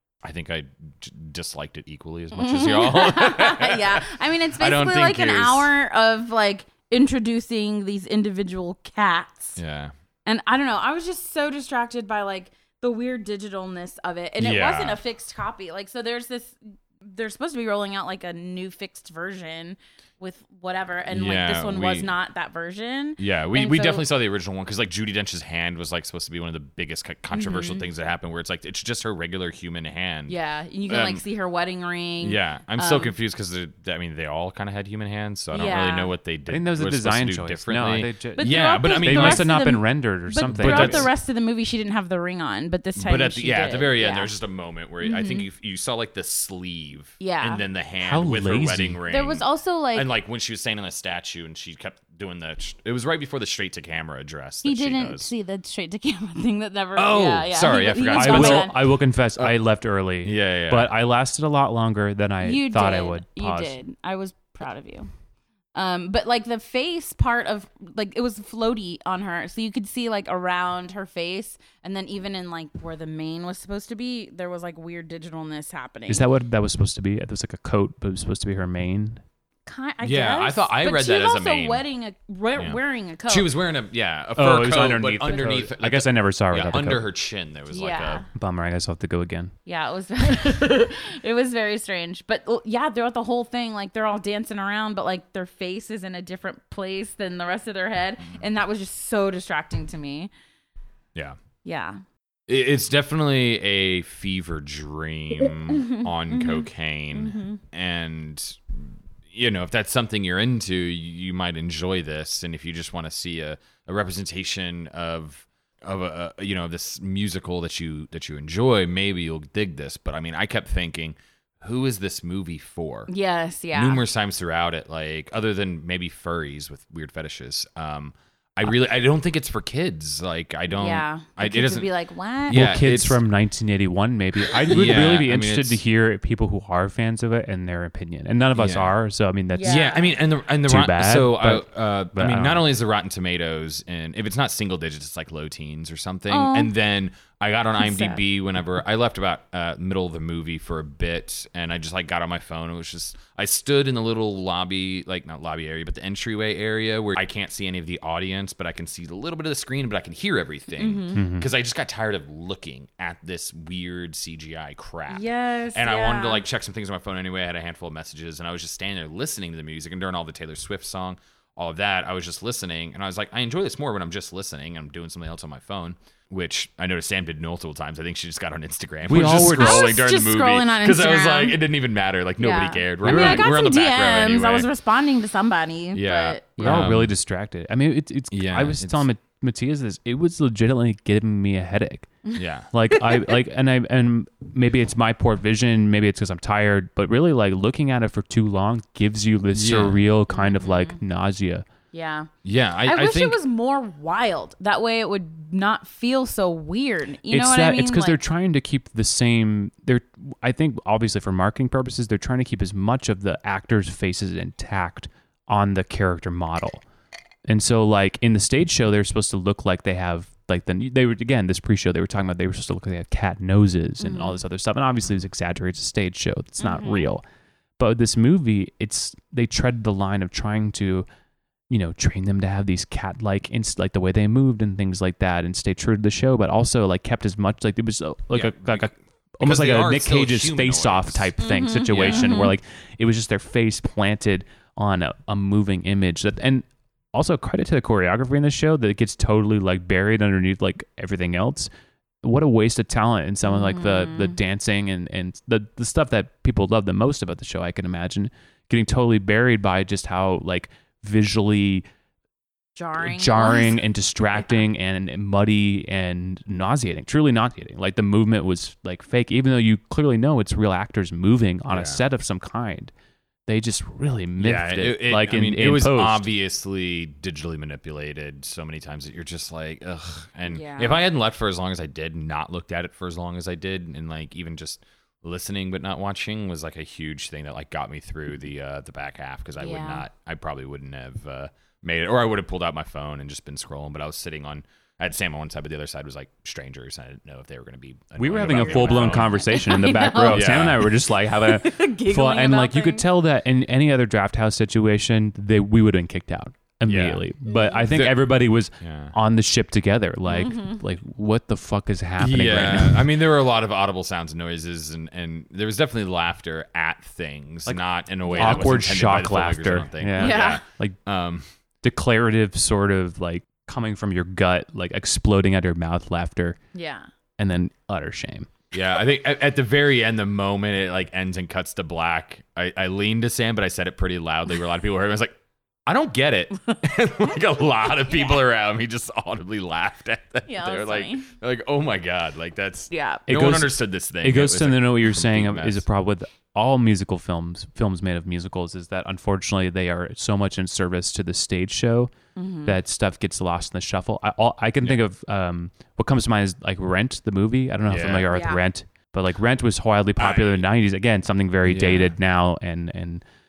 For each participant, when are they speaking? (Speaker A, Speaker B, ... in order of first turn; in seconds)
Speaker A: 0.2-5.7, 9.6-9.9, 14.4-15.0, 21.1-22.1, 23.2-30.4, 30.9-31.2, 32.2-39.5, 40.5-41.1, 43.0-55.3, 57.0-58.7, 60.2-61.0, 80.0-81.8, 82.6-88.2, 102.5-123.1, 123.7-131.9, 132.5-133.2, 134.7-135.8, 138.5-138.9, 139.7-184.7, 185.9-187.1, 188.3-189.1, 192.3-192.7, 199.5-200.0, 202.4-203.4, 238.3-241.3, 241.9-242.5, 271.7-272.0, 274.4-299.4, 300.2-300.9, 306.9-307.2, 307.9-308.2, 308.8-309.1, 312.2-321.4, 328.7-335.4, 335.9-345.8, 357.9-358.3, 360.2-360.6, 361.6-362.2
Speaker B: 2.3-9.6, 10.3-24.1, 27.3-27.9, 30.3-33.1, 35.5-36.1, 38.4-44.3, 45.0-45.5, 47.2-47.6, 49.1-50.1, 54.6-58.8, 62.4-65.1, 65.8-76.2, 79.7-83.5, 87.7-88.3, 89.7-100.3, 101.7-102.0, 105.7-107.6, 123.1-124.0, 130.7-132.6, 139.5-140.2, 146.3-146.7, 147.8-148.2, 160.8-161.2, 165.1-166.4, 179.1-181.6, 182.4-186.8, 200.3-201.0, 201.9-202.3, 202.9-208.2, 224.0-224.4, 226.6-227.1, 241.4-242.6, 253.4-254.4, 262.8-263.8, 280.5-281.1, 289.6-290.1, 298.4-303.0, 307.5-307.9, 310.3-310.8, 318.3-318.7, 320.2-320.6, 326.7-327.1, 338.1-338.4, 340.5-341.3, 342.9-343.2, 352.4-352.8, 358.3-358.6
Speaker C: 36.5-41.1, 48.0-49.0, 58.1-63.8, 76.1-79.2, 84.4-87.0, 88.3-89.5, 132.5-139.9, 140.6-142.7, 161.2-161.5, 179.1-180.0, 183.0-183.5, 186.6-192.1, 192.7-201.7, 207.3-216.8, 217.5-227.2, 227.8-231.1, 231.7-251.7, 252.2-261.9, 263.0-272.9, 273.5-276.3, 298.2-313.1, 318.4-321.0, 321.8-326.6, 327.4-328.5, 343.3-352.1, 352.6-363.2